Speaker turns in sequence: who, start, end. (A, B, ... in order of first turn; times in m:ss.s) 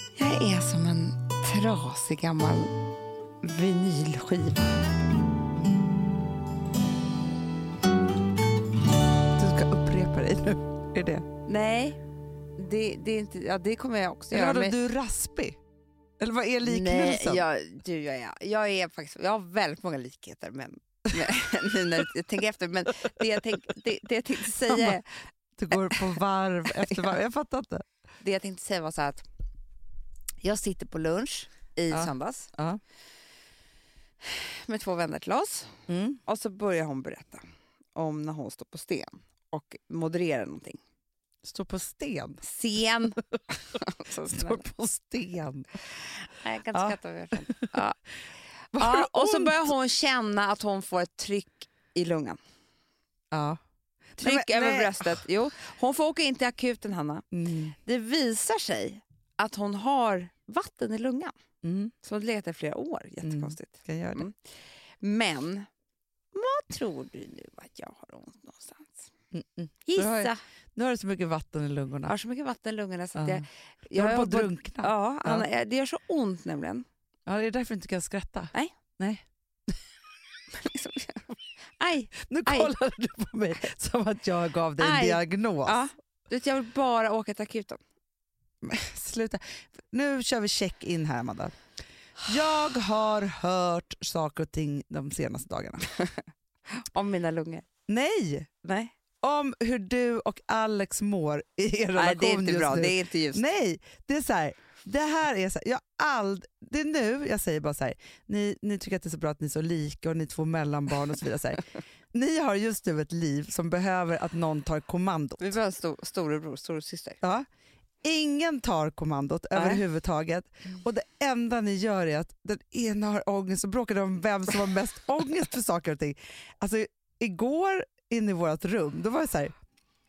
0:00.2-0:02.7 A
0:03.4-0:04.8 A
0:09.4-0:11.3 B
0:11.5-0:12.0 A
0:12.6-0:14.7 A
0:14.3-0:15.6 B
0:16.2-0:17.4 B
0:16.6-0:25.1 A
0:24.7-0:25.0 B
0:25.6-0:27.8 B
0:25.7-0:26.0 A
0:28.2-0:29.2 A
0:30.4-0:32.5 A
0:31.9-0:32.8 B
0:34.2-0:37.4 A
0:35.9-0:36.2 B
0:38.0-0:40.8 A
0:41.4-0:42.4 B
0:42.4-0:44.6 A
0:44.3-0:45.7 B
0:46.0-0:48.0 A
0:46.7-0:47.7 B
0:48.7-0:49.7 B
0:48.8-0:52.4 A
0:53.3-0:53.6 B
0:54.2-0:55.2 B
0:54.2-0:57.2 A
0:57.3-0:57.8 B
0:57.8-1:01.3 A
1:01.6-1:01.9 B
1:02.0-1:04.5 A
1:03.2-1:04.3 B
1:05.0-1:05.7 A
1:06.3-1:09.1 A
1:09.3-1:12.2 B
1:09.9-1:10.4 A
1:12.1-1:16.9 A
1:13.2-1:15.5 B
1:17.3-1:19.2 B
1:20.5-1:22.7 A
1:22.3-1:25.8 B
1:24.8-1:27.8 A
1:28.6-1:31.6 B
1:32.2-1:35.8 B
1:36.0-1:36.2 A
1:36.7-1:37.7 A
1:37.9-1:38.5 B
1:38.6-1:39.0 A
1:39.2-1:55.5 B
1:42.0-1:43.4 A
1:55.4-1:57.2 A
1:58.0-2:09.5 B
1:59.6-1:59.8 A